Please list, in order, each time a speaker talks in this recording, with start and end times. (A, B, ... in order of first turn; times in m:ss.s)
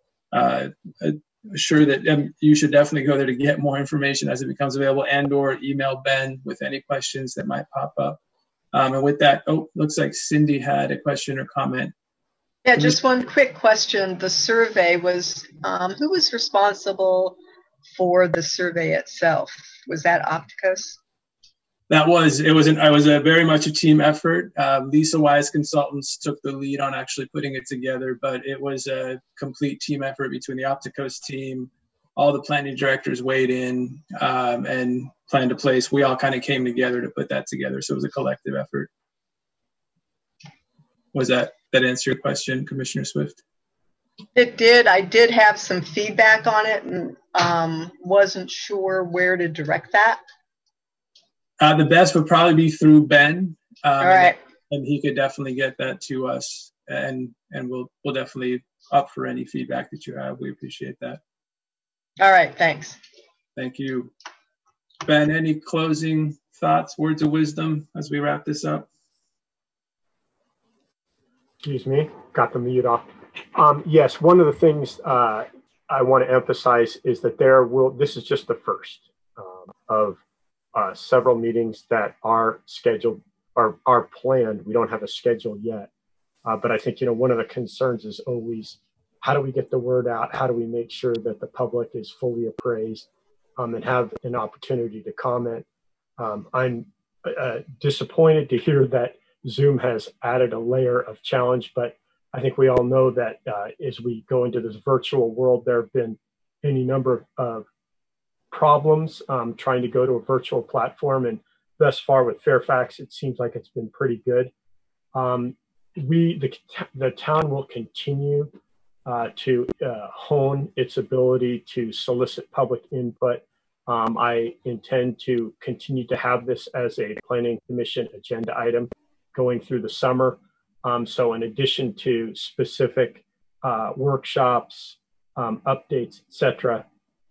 0:00.3-0:08.2 A
0:08.7-0:11.9 A
0:12.6-0:17.4 B
0:17.9-0:21.0 B
0:21.9-0:38.9 A
0:41.1-0:43.4 A
0:44.3-0:50.2 B
0:51.6-1:01.2 A
0:54.0-0:54.4 B
1:02.2-1:03.0 B
1:03.6-1:04.1 A
1:05.0-1:08.9 A
1:11.6-1:20.2 C
1:20.7-1:25.9 C
1:26.4-1:35.6 C
1:36.2-1:47.7 C
1:48.5-1:54.5 C
1:55.1-1:58.5 C
1:59.0-2:16.8 C